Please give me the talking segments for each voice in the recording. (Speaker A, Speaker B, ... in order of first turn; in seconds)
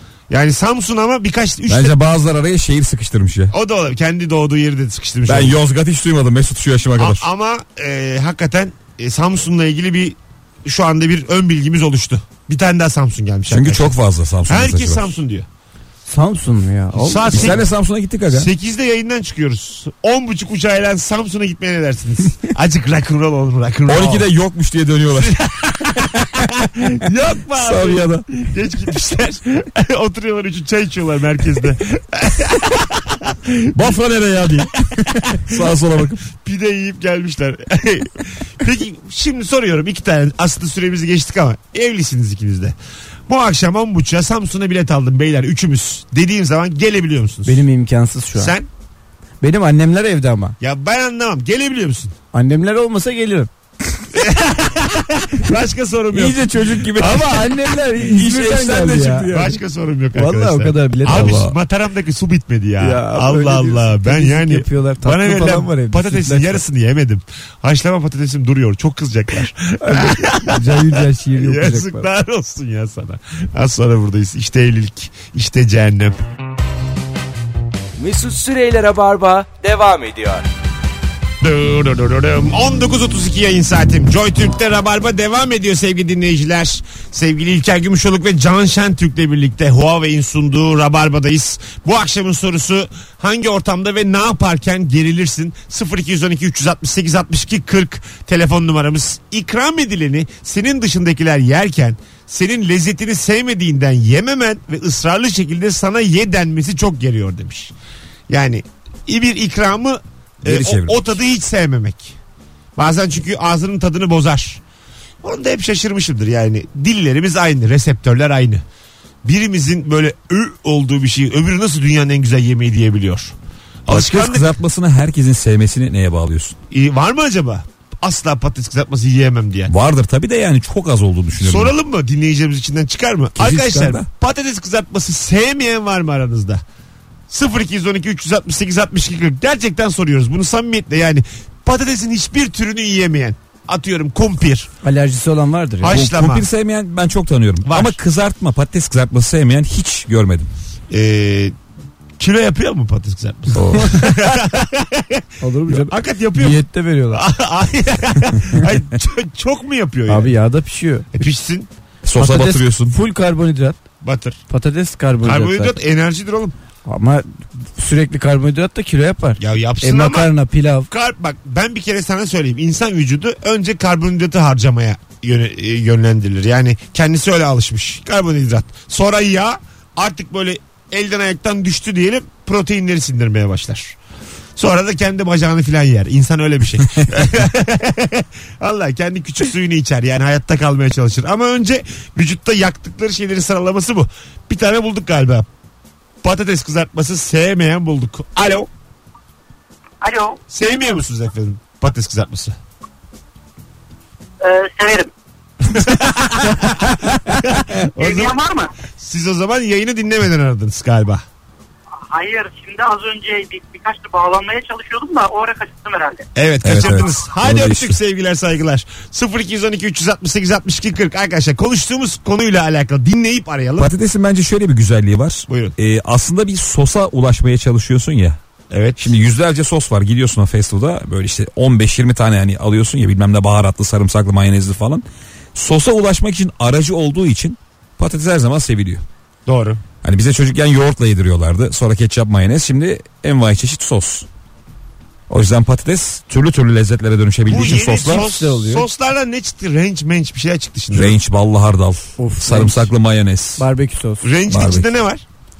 Speaker A: 0.3-1.9, 3.5-5.6, 7.0-13.9, 14.5-15.5, 16.9-17.7, 18.3-24.3, 25.2-33.9, 35.3-35.6, 36.3-42.7, 43.3-47.6, 48.4-48.7, 50.6-52.1, 54.1-57.4, 59.3-76.2, 81.4-107.7, 108.3-112.2, 112.8-114.6, 115.2-118.6, 119.2-123.3, 123.9-124.5, 126.7-129.7, 131.4-136.6, 137.3-144.7, 145.8-146.5, 147.6-148.0, 150.9-151.5, 152.2-160.3, 161.1-161.7, 164.0-164.4, 165.2-166.5, 169.4-170.3, 170.9-184.0, 184.6-195.5, 196.2-198.7, 200.5-202.6, 205.7-208.4, 209.0-211.2, 216.3-223.9, 225.5-225.7, 228.7-229.1, 239.4-239.8, 247.5-251.2, 254.2-255.2
Speaker B: 1.7-3.5, 5.3-7.2, 13.5-15.2, 17.3-18.5, 23.9-25.4, 27.5-28.2, 33.7-36.2, 56.1-57.5, 58.0-59.5, 61.0-61.5, 110.4-111.1, 123.9-126.5, 129.7-131.7, 133.3-134.1, 145.9-150.5, 153.5-154.0, 162.0-162.9, 216.6-218.0, 223.8-228.4, 229.0-235.0, 235.5-239.0, 240.0-244.3, 245.3-248.2, 250.9-253.7, 254.5-254.9
Speaker C: 16.1-17.6, 47.5-48.5, 49.4-50.5, 52.3-53.5, 56.9-59.3, 60.1-61.5, 62.8-66.6, 69.8-72.1, 144.8-146.0, 153.7-154.2, 155.4-157.2, 160.1-161.1, 162.2-163.8, 164.5-165.7, 166.8-170.9, 248.0-248.9, 252.2-252.9, 253.6-254.3
Speaker D: 78.0-80.4
Speaker E: 200.0-200.4, 204.4-205.1, 207.9-208.7, 212.1-216.3